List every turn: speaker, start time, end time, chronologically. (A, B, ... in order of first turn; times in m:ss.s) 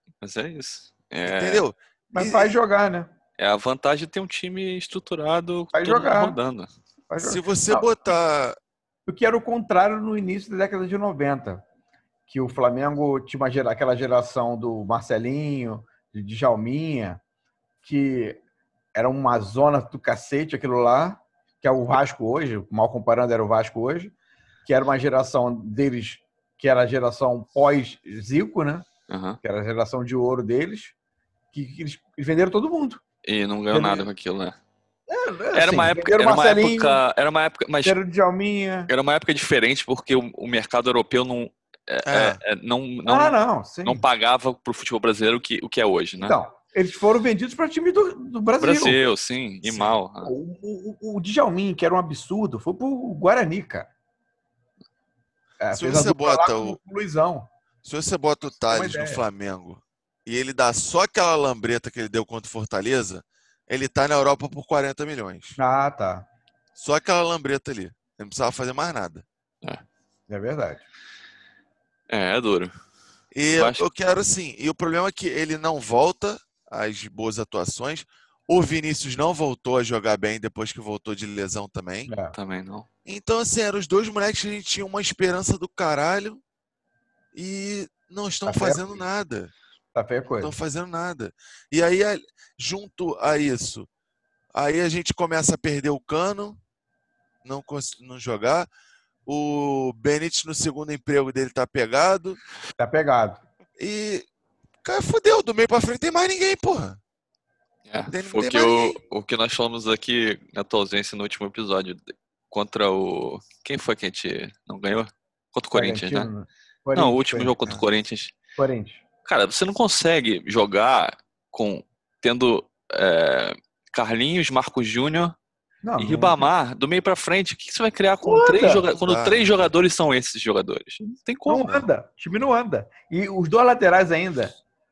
0:00.2-0:01.6 A
0:01.2-0:02.6 B
0:02.1-0:03.1 C
0:03.4-0:06.7 A
0:05.7-0:06.4 C
0:07.1-0:07.9 C
0:07.2-0:08.6 B
0:09.1-0:11.6 C
0:12.3-0:17.2 C
0:17.8-0:18.4 C
0:18.9-0:24.1 C
0:24.6-0:28.8 C
0:29.1-0:29.4 A
0:29.4-0:30.9 C
0:31.5-0:33.0 C
0:33.2-0:34.6 A
0:33.7-0:34.1 C
0:35.1-0:37.0 C
0:35.5-0:38.0 A
0:37.8-0:38.9 C
0:38.9-0:46.4 A
0:42.0-0:42.4 B
0:43.0-0:44.0 C
0:46.2-0:49.0 C
0:48.6-0:50.3 A
0:49.6-0:49.9 B
0:50.2-0:53.9 C
0:55.6-0:57.5 C
0:55.7-0:56.8 B
0:57.8-1:05.6 B
0:58.7-0:59.2 C
1:05.6-1:06.3 C
1:06.7-1:09.2 B
1:10.3-1:10.8 C
1:12.1-1:12.7 A
1:13.3-1:22.1 B
1:13.5-1:13.8 A
1:22.1-1:22.3 C
1:22.3-1:22.9 A
1:23.0-1:26.4 B
1:27.3-1:29.5 B
1:28.4-1:29.0 C
1:29.9-1:30.5 C
1:30.3-1:33.9 B
1:34.5-1:36.6 B
1:37.4-1:38.7 B
1:39.2-1:42.4 B
1:42.8-1:43.4 C
1:43.8-1:44.2 B
1:44.8-1:47.0 B
1:47.9-1:56.3 A
1:48.1-1:49.0 B
1:55.7-1:57.5 C
1:57.0-1:58.3 A
1:58.6-1:59.0 C
1:59.2-2:05.4 A
2:05.8-2:06.5 C
2:06.0-2:11.8 A
2:08.2-2:08.9 C
2:08.9-2:09.7 B
2:11.5-2:14.5 C